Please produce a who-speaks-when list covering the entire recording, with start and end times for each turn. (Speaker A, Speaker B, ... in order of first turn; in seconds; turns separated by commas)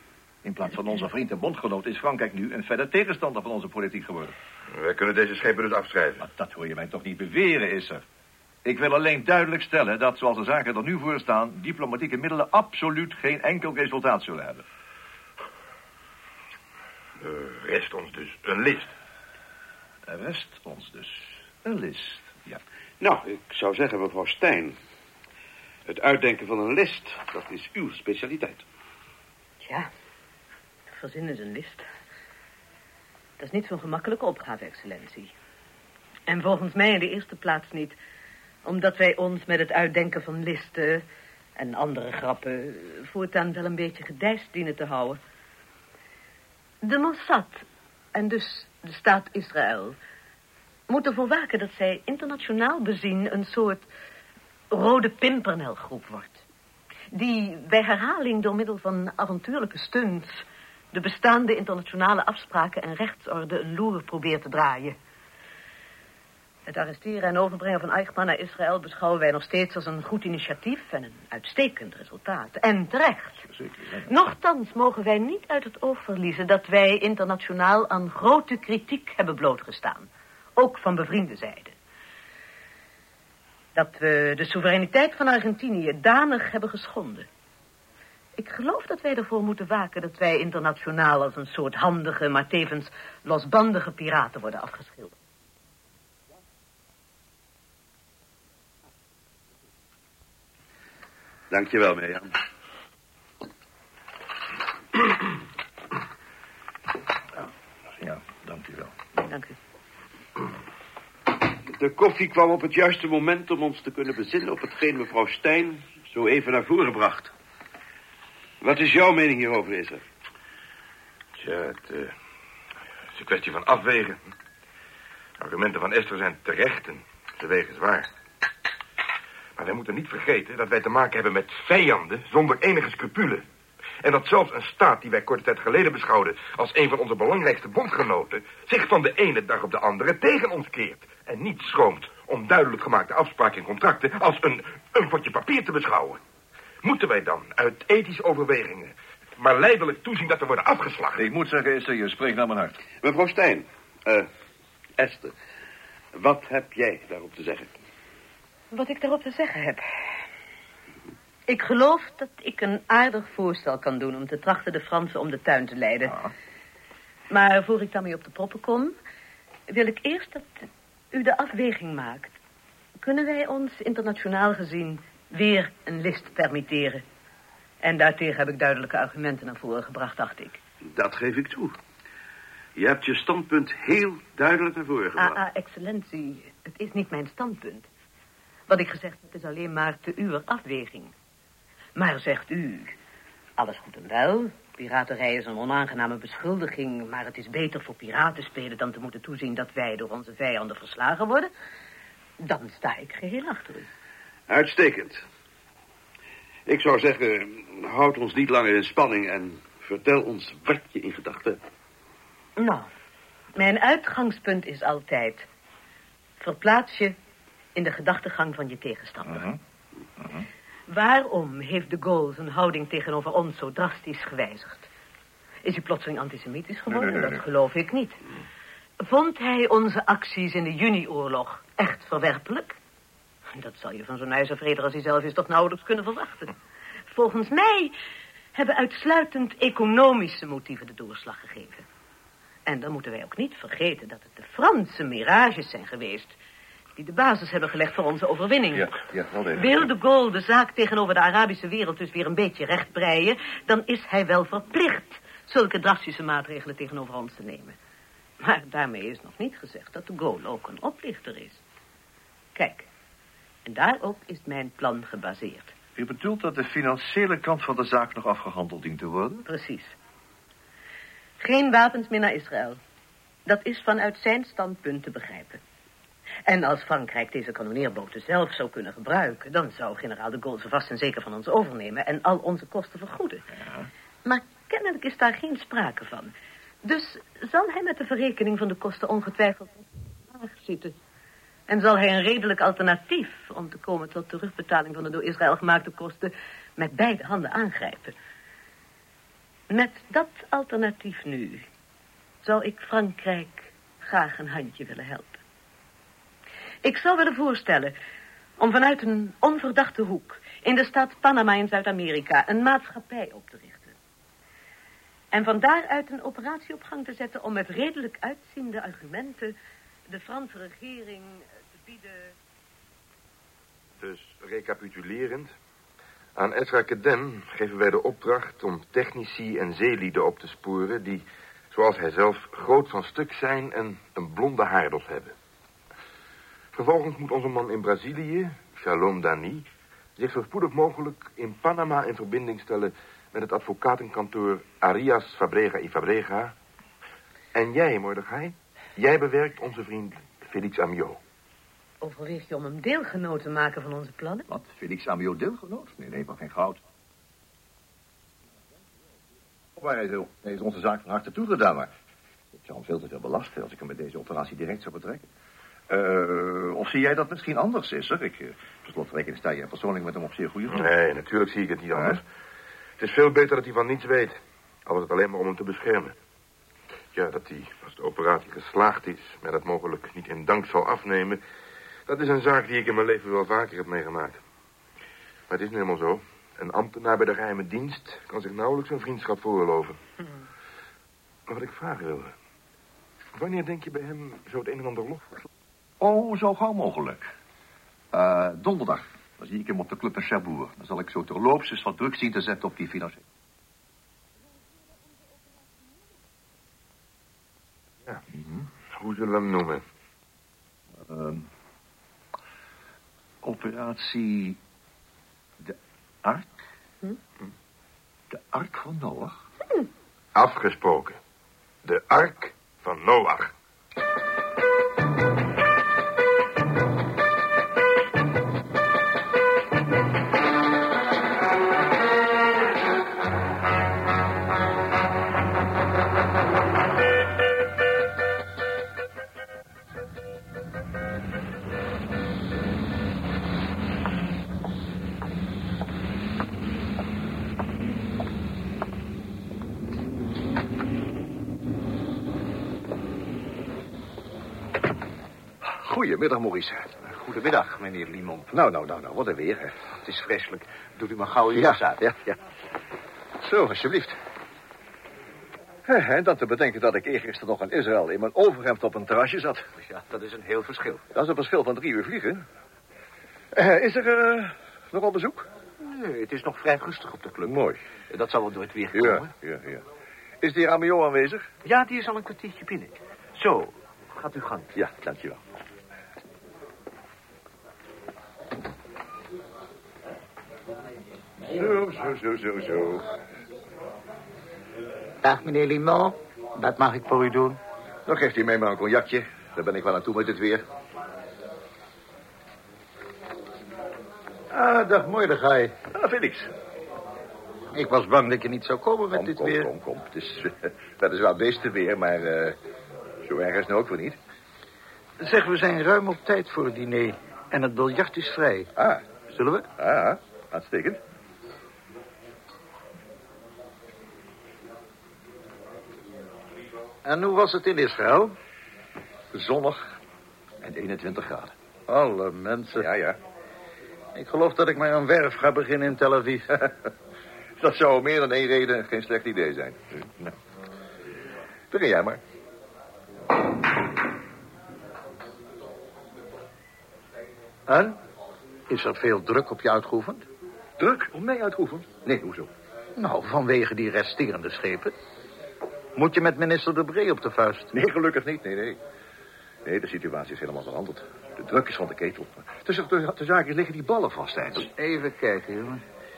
Speaker A: 0.4-4.4, Speaker B: 4.7-6.2, Speaker A: 6.2-8.0, Speaker A: 8.7-14.7, Speaker B: 17.2-18.9, Speaker A: 20.1-22.6, Speaker C: 23.0-24.8, Speaker C: 25.9-28.6, Speaker D: 29.6-29.9, Speaker D: 30.9-31.8, Speaker D: 33.4-35.3, Speaker D: 36.3-38.0, Speaker D: 38.6-41.0, Speaker D: 41.6-45.2, Speaker D: 46.8-50.0, Speaker D: 50.9-53.9, Speaker D: 54.7-56.4, Speaker D: 57.1-65.0, Speaker D: 66.7-73.5, Speaker A: 73.5-74.1, Speaker D: 74.1-81.8, Speaker D: 83.8-87.3, Speaker D: 88.4-95.2, Speaker C: 101.5-102.3, Speaker A: 108.0-108.9, Speaker D: 109.3-109.6, Speaker C: 111.7-117.3, Speaker C: 118.6-120.0, Speaker B: 121.4-122.1, Speaker B: 123.1-124.3, Speaker B: 125.4-128.1, Speaker B: 129.6-133.4, Speaker B: 134.0-146.2, Speaker B: 146.8-151.2, Speaker A: 151.2-152.8, Speaker C: 153.0-154.3, Speaker C: 155.0-155.3, Speaker C: 156.2-157.8, Speaker D: 158.7-159.8, Speaker D: 161.5-166.2, Speaker D: 167.3-168.9, Speaker D: 169.7-172.3, Speaker D: 173.0-177.0, Speaker D: 177.8-180.6, Speaker C: 180.9-181.8, Speaker C: 182.8-185.4, Speaker D: 185.2-187.9, Speaker D: 188.7-191.2, Speaker D: 192.0-193.0, Speaker D: 193.6-201.5, Speaker D: 202.4-203.9, Speaker C: 204.5-205.2, Speaker C: 206.7-211.6, Speaker D: 212.6-212.9, Speaker D: 213.6-215.5, Speaker D: 216.4-217.2, Speaker D: 217.8-219.5, Speaker A: 219.3-219.6, Speaker A: 220.2-220.4, Speaker D: 220.9-224.9, Speaker D: 225.6-228.2, Speaker A: 226.9-227.4, Speaker D: 229.0-232.8, Speaker D: 233.5-236.5, Speaker D: 237.1-237.9, Speaker D: 238.6-241.8, Speaker D: 242.7-246.4, Speaker D: 247.0-248.9, Speaker A: 248.7-249.9, Speaker D: 249.5-257.8, Speaker D: 258.4-261.6, Speaker D: 262.6-262.9, Speaker D: 263.6-265.7, Speaker A: 266.0-269.5, Speaker D: 269.5-269.9, Speaker D: 271.4-272.8, Speaker D: 273.5-275.6, Speaker D: 276.5-283.5, Speaker A: 283.6-283.9, Speaker D: 284.2-291.0, Speaker D: 291.7-298.1, Speaker D: 299.7-301.6, Speaker D: 302.4-305.4, Speaker D: 306.8-307.9, Speaker D: 308.6-314.0, Speaker D: 315.3-319.6, Speaker D: 320.1-322.3, Speaker B: 324.0-325.5, Speaker B: 326.4-335.3, Speaker B: 336.7-346.6, Speaker B: 347.5-351.2, Speaker D: 352.0-354.5, Speaker A: 354.5-356.8, Speaker A: 359.8-361.9, Speaker A: 362.5-365.3, Speaker A: 365.9-370.9, Speaker B: 370.7-372.2, Speaker A: 371.9-372.2, Speaker B: 373.0-376.2, Speaker B: 377.1-381.4, Speaker B: 382.1-384.4, Speaker B: 385.5-390.0, Speaker B: 391.5-392.4, Speaker B: 393.4-395.5, Speaker A: 396.0-397.3, Speaker A: 398.1-403.2, Speaker A: 408.3-408.7, Speaker B: 408.9-409.8, Speaker A: 410.9-411.5, Speaker A: 413.4-414.6, Speaker A: 415.6-416.5, Speaker A: 418.3-419.4, Speaker B: 420.4-421.2, Speaker B: 421.8-423.5, Speaker A: 455.6-457.0, Speaker E: 457.0-458.5, Speaker A: 458.5-459.8, Speaker E: 459.9-462.0, Speaker A: 461.5-462.4, Speaker A: 463.4-464.2, Speaker A: 465.9-469.7, Speaker E: 469.8-471.0, Speaker A: 471.1-472.4, Speaker A: 473.5-475.5, Speaker E: 475.8-477.6, Speaker A: 477.4-477.8, Speaker E: 478.1-479.3, Speaker A: 478.9-479.8, Speaker A: 480.4-481.5, Speaker E: 481.6-484.7, Speaker A: 484.7-485.4, Speaker A: 491.5-493.0, Speaker F: 495.2-497.6, Speaker A: 498.1-500.6, Speaker F: 504.5-505.8, Speaker A: 505.9-506.5, Speaker F: 507.7-509.7, Speaker A: 509.1-512.6, Speaker A: 513.2-514.2, Speaker F: 515.2-518.7, Speaker A: 518.8-519.0, Speaker F: 519.3-519.7, Speaker A: 519.8-521.0, Speaker F: 527.0-528.3, Speaker A: 529.3-529.9, Speaker A: 530.6-531.5, Speaker F: 531.9-532.9, Speaker A: 532.8-533.2, Speaker F: 534.1-536.5, Speaker A: 537.6-540.4, Speaker A: 541.7-542.2, Speaker F: 547.7-548.0, Speaker F: 548.7-550.2, Speaker A: 550.8-552.5, Speaker F: 553.0-554.9, Speaker F: 556.0-557.7, Speaker A: 557.7-558.8, Speaker A: 559.6-564.7, Speaker F: 564.6-565.8